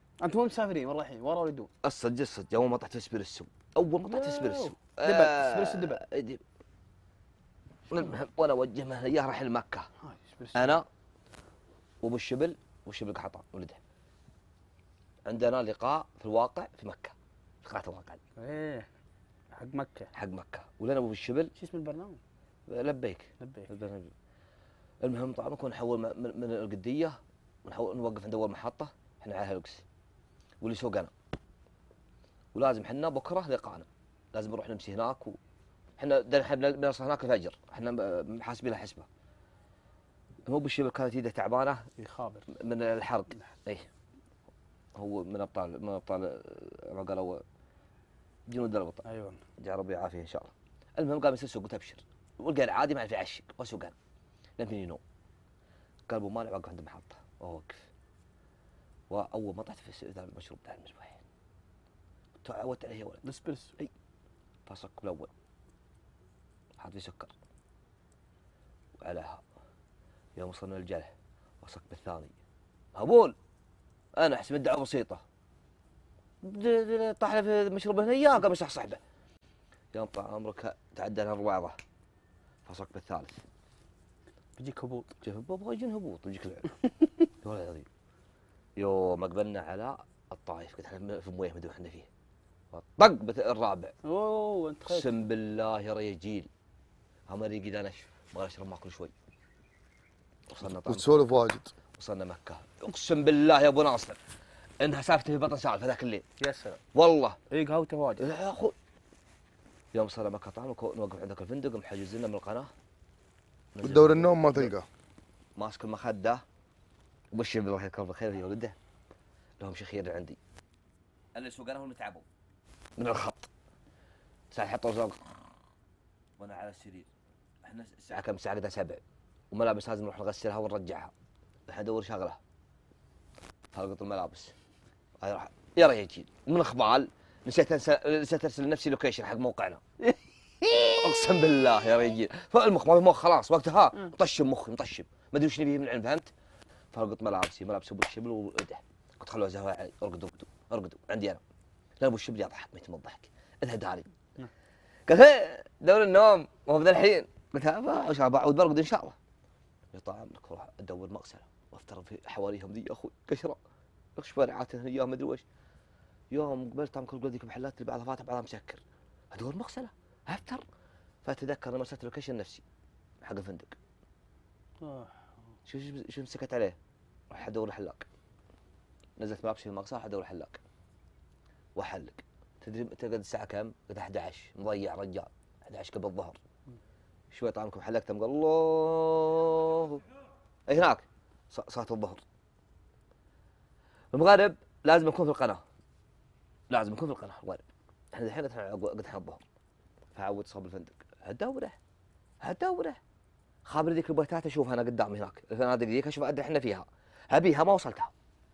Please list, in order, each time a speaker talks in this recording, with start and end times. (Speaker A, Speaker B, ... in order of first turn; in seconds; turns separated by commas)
Speaker A: 0.2-1.7, Speaker B: 1.8-6.4, Speaker A: 4.1-6.0, Speaker B: 7.9-9.9, Speaker A: 10.0-10.8, Speaker B: 10.5-10.8, Speaker B: 12.0-13.8, Speaker B: 15.2-18.2, Speaker A: 18.4-18.9, Speaker A: 19.5-20.1, Speaker B: 20.1-21.5, Speaker A: 21.5-22.2, Speaker B: 22.7-24.1, Speaker A: 23.4-23.7, Speaker B: 25.0-29.8, Speaker B: 30.6-31.1, Speaker B: 32.5-35.4, Speaker B: 36.0-39.1, Speaker B: 40.5-41.8, Speaker A: 42.0-42.5, Speaker B: 42.5-43.9, Speaker B: 45.0-47.4, Speaker B: 48.5-49.0, Speaker A: 49.0-49.4, Speaker B: 49.6-53.9, Speaker B: 54.6-55.0, Speaker B: 56.1-57.8, Speaker B: 59.1-61.2, Speaker B: 62.4-63.2, Speaker A: 63.2-63.7, Speaker B: 64.7-65.3, Speaker B: 66.8-67.3, Speaker B: 69.0-69.4, Speaker B: 70.3-72.3, Speaker B: 72.9-73.3, Speaker B: 74.2-75.2, Speaker B: 76.4-79.0, Speaker B: 79.9-81.8, Speaker B: 82.7-83.4, Speaker A: 84.6-85.1, Speaker B: 85.2-86.7, Speaker B: 87.4-87.9, Speaker B: 88.8-92.1, Speaker B: 92.7-93.9, Speaker A: 94.0-95.1, Speaker B: 94.9-96.5, Speaker B: 97.3-99.1, Speaker B: 100.5-101.3, Speaker C: 100.8-101.7, Speaker B: 101.9-104.2, Speaker B: 104.8-106.2, Speaker A: 106.4-106.8, Speaker B: 106.9-107.4, Speaker A: 107.5-108.2, Speaker B: 108.2-108.7, Speaker B: 109.9-112.7, Speaker B: 113.7-114.7, Speaker C: 113.8-114.8, Speaker B: 115.5-116.4, Speaker B: 117.3-118.8, Speaker B: 119.6-120.4, Speaker B: 121.3-122.2, Speaker B: 123.0-123.5, Speaker B: 124.5-125.2, Speaker B: 126.4-127.1, Speaker B: 127.6-131.1, Speaker B: 131.7-132.4, Speaker B: 133.7-134.5, Speaker B: 135.2-139.8, Speaker B: 140.6-146.3, Speaker B: 146.9-151.4, Speaker B: 152.0-154.1, Speaker B: 155.1-159.2, Speaker B: 159.9-163.6, Speaker B: 164.2-165.4, Speaker B: 166.3-168.8, Speaker B: 169.3-170.6, Speaker B: 171.2-172.6, Speaker B: 173.2-173.8, Speaker A: 174.8-175.1, Speaker B: 175.7-176.8, Speaker B: 177.3-178.1, Speaker B: 179.2-180.6, Speaker B: 181.7-186.4, Speaker B: 187.3-190.0, Speaker B: 190.7-192.2, Speaker B: 194.1-195.6, Speaker B: 196.7-197.6, Speaker B: 198.1-199.4, Speaker B: 200.1-201.8, Speaker B: 202.4-203.0, Speaker B: 203.7-208.1